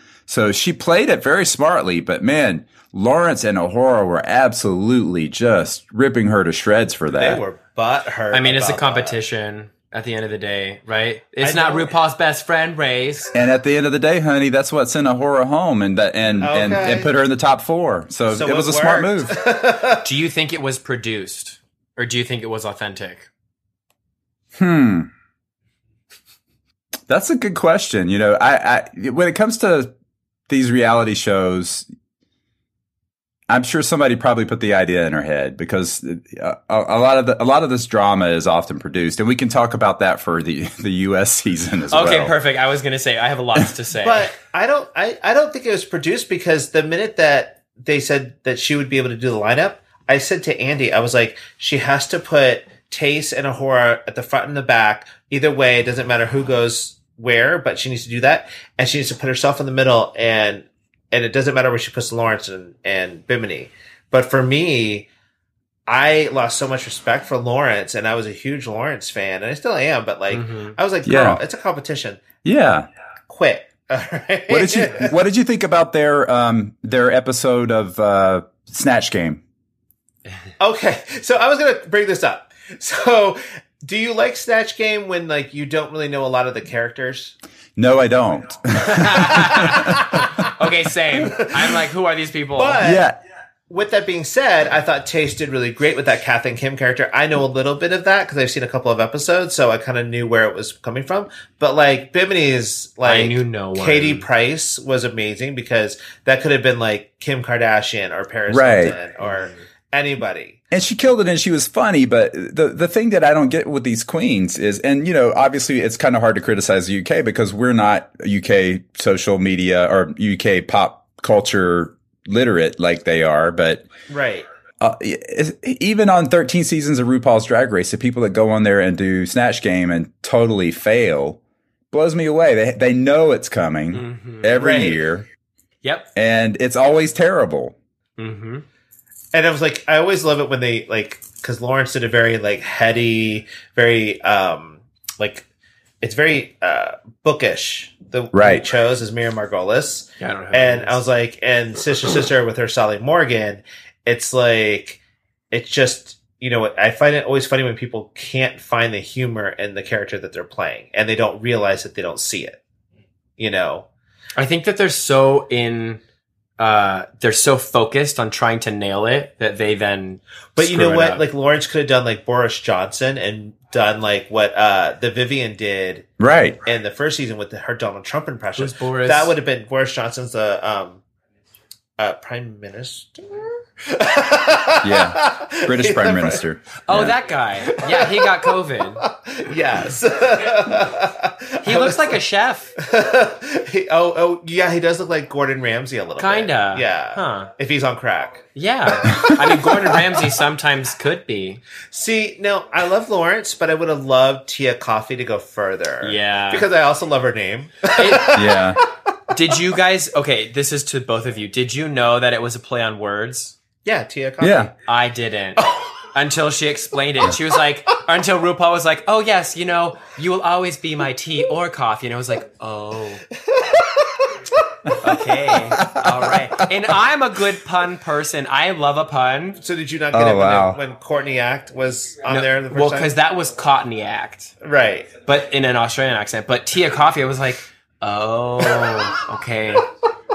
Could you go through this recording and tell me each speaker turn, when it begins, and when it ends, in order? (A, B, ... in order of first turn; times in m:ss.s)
0:00.3-0:07.4 A
0:07.1-0:09.2 B
0:08.3-0:13.3 C
0:11.4-0:11.9 B
0:13.3-0:19.4 A
0:16.4-0:17.1 B
0:18.3-0:20.0 B
0:20.0-0:23.3 C
0:24.6-0:25.1 A
0:27.1-0:29.9 A
0:30.5-0:31.9 A
0:33.5-0:42.3 A
0:41.9-0:44.3 C
0:44.0-1:05.1 B
1:05.9-1:12.2 B
1:10.3-1:10.8 C
1:11.0-1:11.4 A
1:12.4-1:12.9 A
1:13.3-1:15.1 B
1:14.5-1:19.4 A
1:20.6-1:27.4 B
1:27.8-1:30.0 A
1:28.8-1:32.8 C
1:29.4-1:30.5 B
1:31.1-1:31.8 B
1:32.6-1:33.1 B
1:32.8-1:33.2 A
1:33.7-1:50.6 B
1:43.0-1:44.3 C
1:48.5-1:48.9 A
1:50.7-2:03.9 A
2:04.1-2:04.5 B
2:04.8-2:11.4 A
2:11.9-2:15.3 A
2:13.9-2:14.5 C
2:14.6-2:15.0 B
2:15.8-2:16.1 C
2:16.1-2:17.8 A
2:18.2-2:18.6 C
2:19.3-2:25.4 B
2:26.0-2:35.0 B
2:28.3-2:28.6 A
2:30.2-2:31.0 C
2:35.5-2:42.6 B
2:43.4-2:43.8 B
2:44.4-2:46.0 C
2:46.6-2:51.2 C
2:50.6-2:56.1 B
2:56.2-2:56.6 A
2:56.6-3:01.0 B
2:58.6-2:59.3 C
3:02.0-3:06.4 B
3:04.8-3:07.2 A
3:06.8-3:09.0 C
3:07.7-3:08.5 B
3:09.0-3:12.1 B
3:11.6-3:12.7 C
3:12.8-3:19.9 B
3:16.2-3:17.5 C
3:18.5-3:21.6 C
3:21.9-3:28.8 B
3:26.0-3:26.7 C
3:27.8-3:28.5 C
3:28.3-3:28.8 A
3:29.3-3:33.5 C
3:33.8-3:34.7 B
3:34.4-3:34.7 A
3:34.8-3:43.2 C
3:35.6-3:35.9 B
3:43.4-3:45.0 B
3:45.0-3:49.6 C
3:45.8-3:46.3 A
3:49.6-3:53.1 B
3:50.1-3:50.8 A
3:52.3-3:54.5 C
3:54.6-3:55.1 B
3:55.2-3:59.9 C